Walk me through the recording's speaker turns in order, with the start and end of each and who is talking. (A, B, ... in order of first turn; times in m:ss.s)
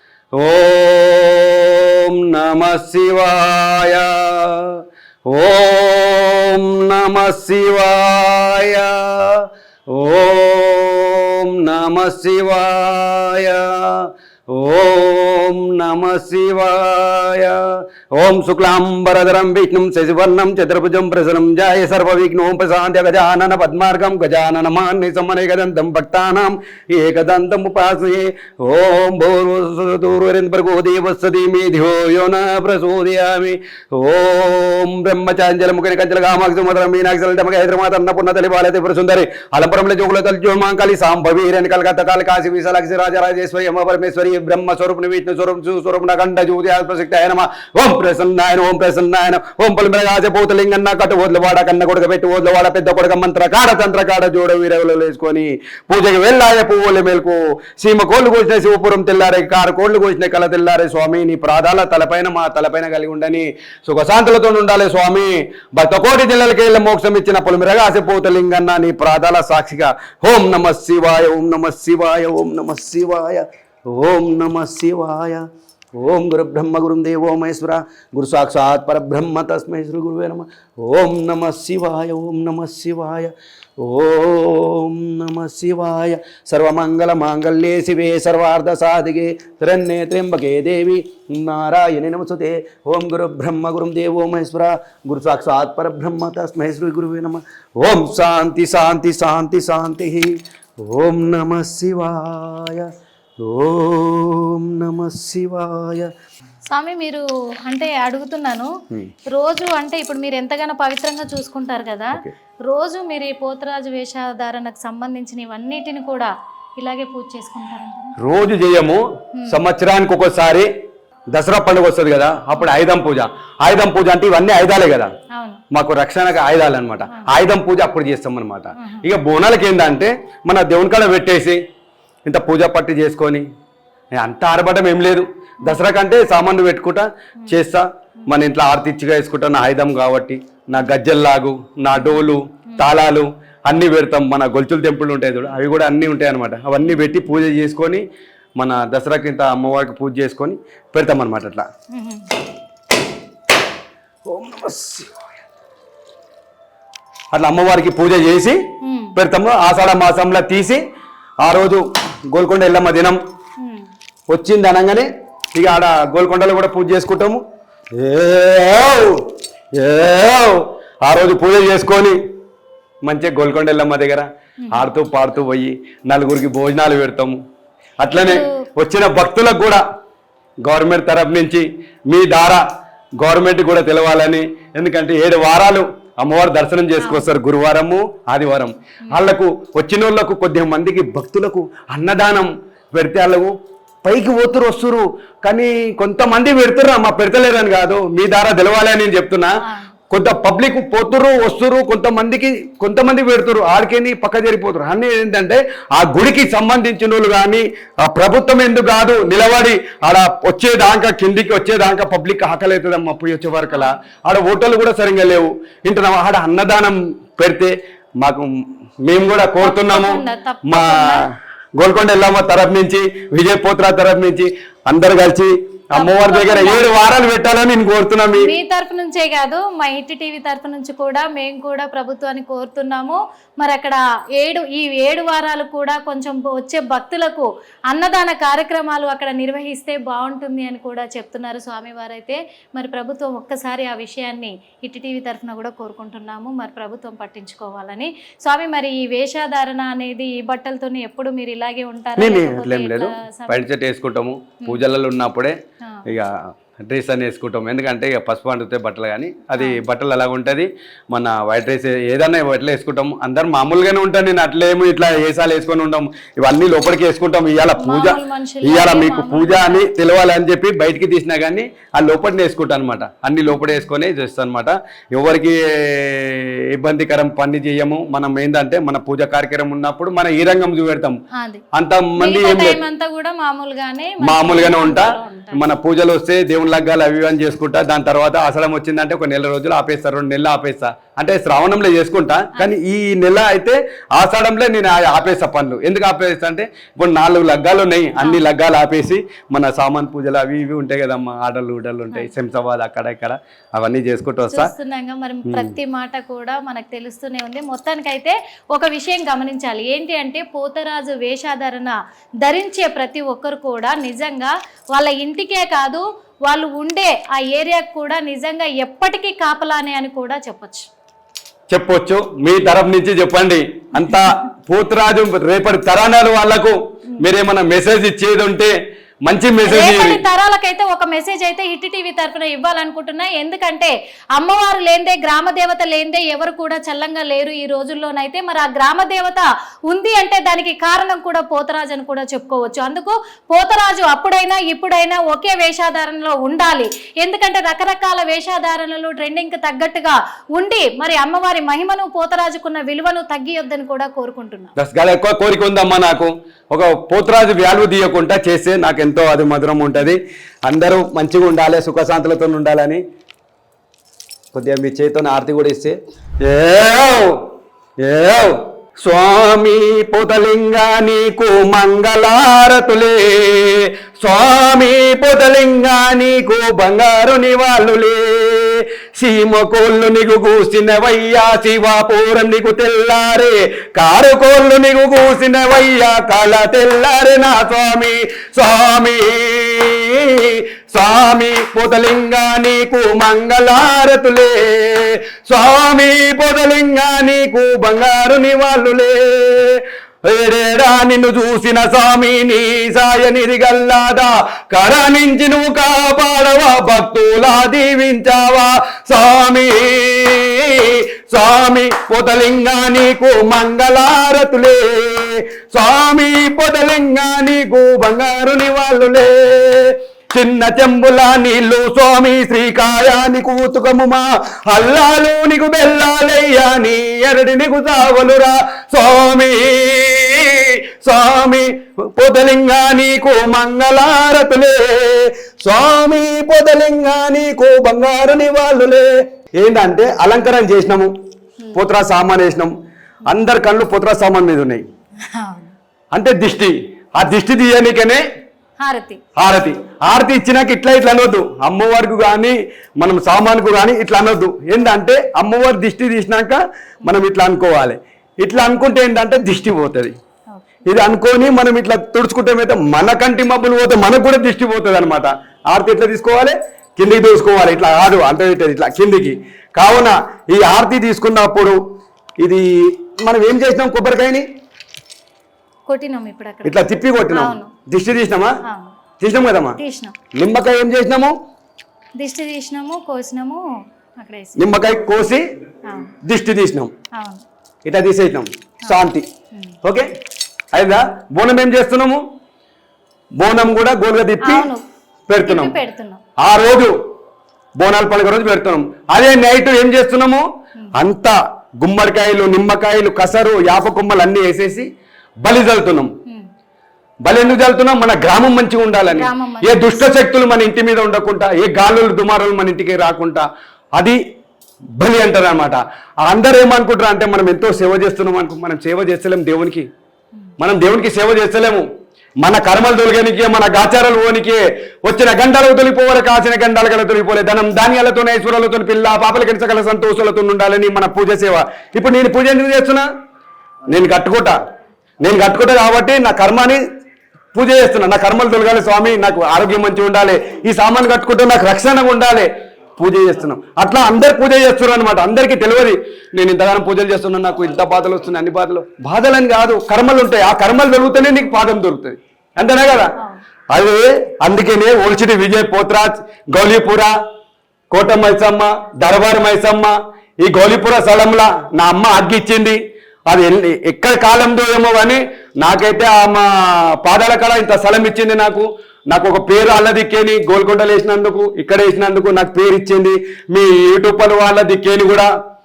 0:00.3-1:40.3 A
1:40.8-1:42.9 A
1:43.4-1:46.1 A
1:46.7-1:48.7 B
1:49.4-1:52.1 B
1:52.7-1:58.1 B
1:58.2-2:00.7 A
2:01.3-2:05.1 A
2:05.3-2:05.6 B
2:05.7-2:11.6 A
2:08.8-2:09.1 B
2:12.2-2:13.4 A
2:14.2-2:28.0 A
2:21.9-2:22.9 B
2:26.8-2:27.2 B
2:28.6-2:31.7 A
2:31.9-2:32.4 B
2:34.2-2:35.1 A
2:37.3-2:38.6 A
2:38.8-2:39.2 B
2:39.2-2:40.8 A
2:41.4-2:43.2 A
2:43.6-2:43.8 B
2:44.3-2:47.4 A
2:48.0-2:52.2 A
2:53.0-2:57.4 A
2:54.6-2:54.9 B
2:58.0-2:59.8 A
2:58.1-2:58.5 B
3:00.6-3:02.6 A
3:03.2-3:13.5 A
3:07.0-3:07.3 B
3:14.0-3:19.5 A
3:19.6-3:19.9 B
3:20.1-3:38.5 A
3:33.7-3:34.0 B
3:39.0-3:41.2 A
3:39.6-3:41.2 B
3:41.8-3:48.5 A
3:46.0-3:46.8 B
3:48.4-4:13.6 B
4:12.2-4:15.6 A
4:16.1-4:16.3 A
4:16.8-4:41.2 A
4:27.8-4:29.9 B
4:33.5-4:33.8 B
4:41.3-4:41.6 B
4:41.7-4:42.8 A
4:42.2-4:45.6 B
4:44.2-5:04.7 A
4:58.2-4:58.4 B
5:04.5-5:20.8 B
5:05.5-5:05.7 A
5:21.7-5:28.7 A
5:29.2-5:30.2 A
5:29.6-5:54.7 B
5:54.8-6:03.0 A
6:04.5-6:07.4 A
6:08.0-7:21.1 A
7:21.7-7:22.7 A
7:23.3-7:24.8 A
7:25.3-7:25.7 B
7:26.1-7:28.2 A
7:28.8-7:29.2 B
7:29.4-7:40.1 A
7:40.8-7:51.8 A
7:52.4-7:54.4 A
7:55.9-7:57.7 B
7:56.6-7:58.5 A
7:58.6-7:58.9 B
7:59.2-7:59.8 A
7:59.8-8:00.1 B
8:00.3-8:01.3 A
8:02.2-8:03.6 B
8:04.2-8:04.7 B
8:04.6-8:05.4 A
8:05.8-8:06.1 B
8:06.2-8:06.9 A
8:07.1-8:07.4 B
8:07.8-8:09.2 A
8:10.7-8:12.2 A
8:13.4-8:14.7 A
8:14.4-8:14.8 B
8:15.3-8:15.8 A
8:15.4-8:16.2 B
8:16.4-8:16.9 A
8:17.8-8:24.9 A
8:25.4-8:26.1 A
8:27.2-8:34.2 A
8:29.1-8:30.1 B
8:35.0-8:39.8 A
8:40.6-8:41.8 A
8:42.4-8:53.1 A
8:53.9-8:54.5 A
8:55.2-8:56.8 A
8:57.5-9:13.1 A
9:13.2-9:13.4 B
9:13.7-9:17.1 A
9:17.9-9:35.3 A